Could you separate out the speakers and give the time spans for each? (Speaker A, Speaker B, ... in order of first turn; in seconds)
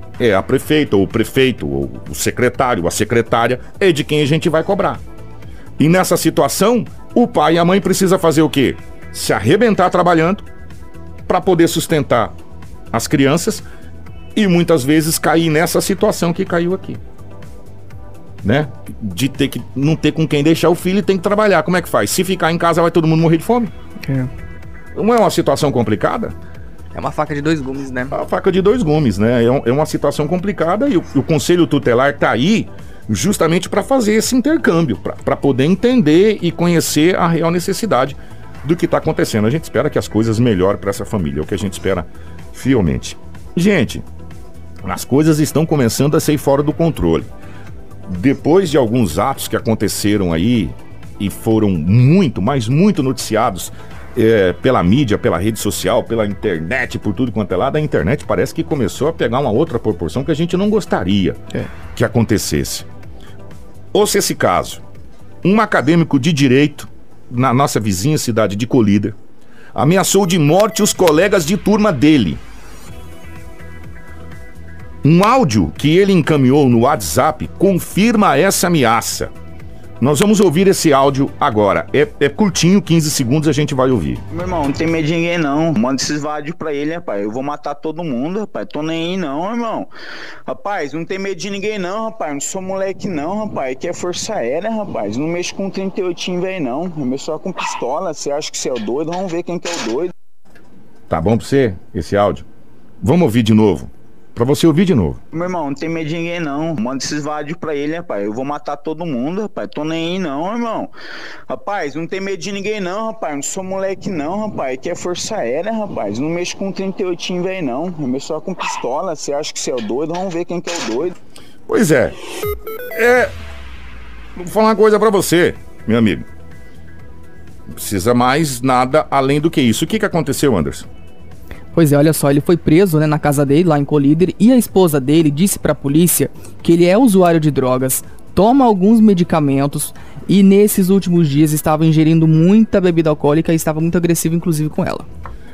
Speaker A: 0.2-5.0, 5.8-10.4, 11.3-12.3, 12.9-13.6, 14.3-17.0, 18.4-23.7, 24.9-26.4, 28.1-44.0, 44.8-47.3, 48.0-61.4, 61.9-62.9, 63.9-64.8, 65.4-69.2, 69.7-72.4, 75.0-79.3, 80.0-84.2, 101.1-102.5, 103.0-105.2, 121.7-122.2, 122.9-123.3, 124.3-126.2, 127.7-130.9
Speaker B: 24.0-24.3, 26.9-28.1, 131.7-145.1
Speaker C: 84.3-89.9, 90.5-100.1, 105.3-110.9, 111.5-121.1